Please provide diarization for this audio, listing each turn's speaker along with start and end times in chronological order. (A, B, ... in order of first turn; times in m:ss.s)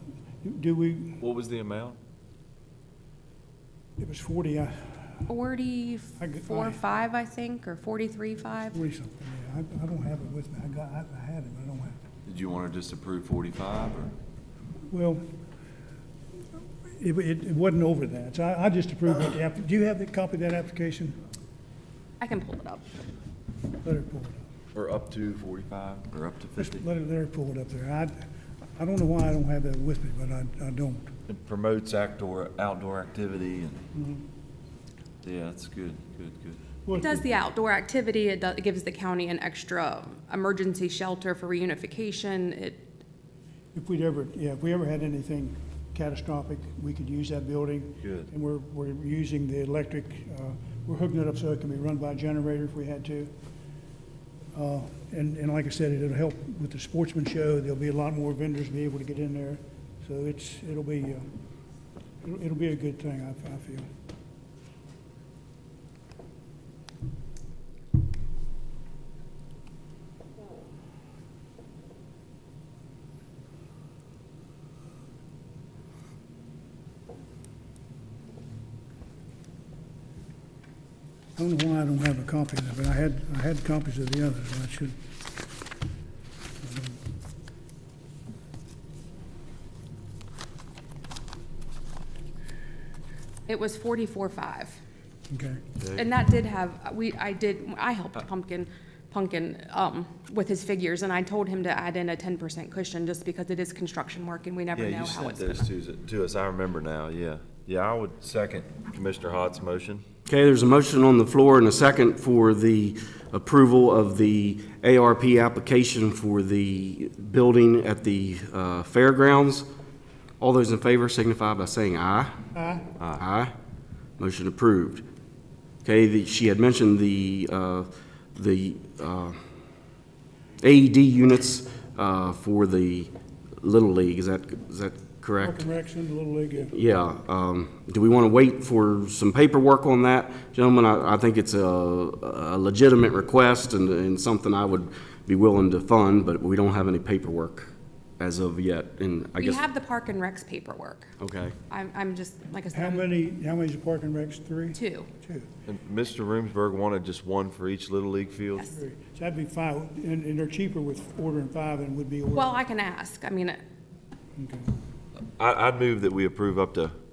0:00.4-0:01.2 A
0:01.2-0:02.0 B
0:04.0-0:05.2 A
0:05.3-0:08.8 C
0:06.2-0:07.0 A
0:08.7-0:12.0 A
0:12.2-0:14.1 B
0:14.9-0:15.2 A
0:16.9-0:21.2 A
0:22.2-0:22.8 C
0:23.8-0:24.4 A
0:24.7-0:26.8 B
0:26.6-0:28.2 A
0:28.8-0:31.1 A
0:31.3-0:33.8 B
0:33.9-0:34.2 A
0:35.2-0:36.6 B
0:36.8-0:37.2 A
0:36.9-0:42.8 C
0:43.7-0:53.3 A
0:48.0-0:48.3 B
0:54.5-1:01.3 A
1:02.2-1:03.9 A
1:21.4-1:25.0 A
1:26.6-1:27.0 A
1:33.5-1:34.8 C
1:35.3-1:35.6 A
1:35.8-1:45.6 C
1:44.7-1:50.0 B
1:50.3-1:59.6 D
2:00.4-2:02.4 D
2:02.5-2:02.8 A
2:03.0-2:03.5 D
2:04.2-2:05.0 D
2:05.8-2:09.4 D
2:10.6-2:15.7 D
2:15.4-2:16.7 A
2:16.6-2:29.6 D
2:29.4-2:31.1 C
2:31.2-2:31.6 D
2:31.7-2:33.1 C
2:32.7-2:35.5 A
2:34.7-2:35.1 C
2:35.6-2:38.7 B
2:38.7-2:42.6 A
2:42.3-2:43.6 C
2:44.4-2:44.7 A
2:45.4-2:46.9 B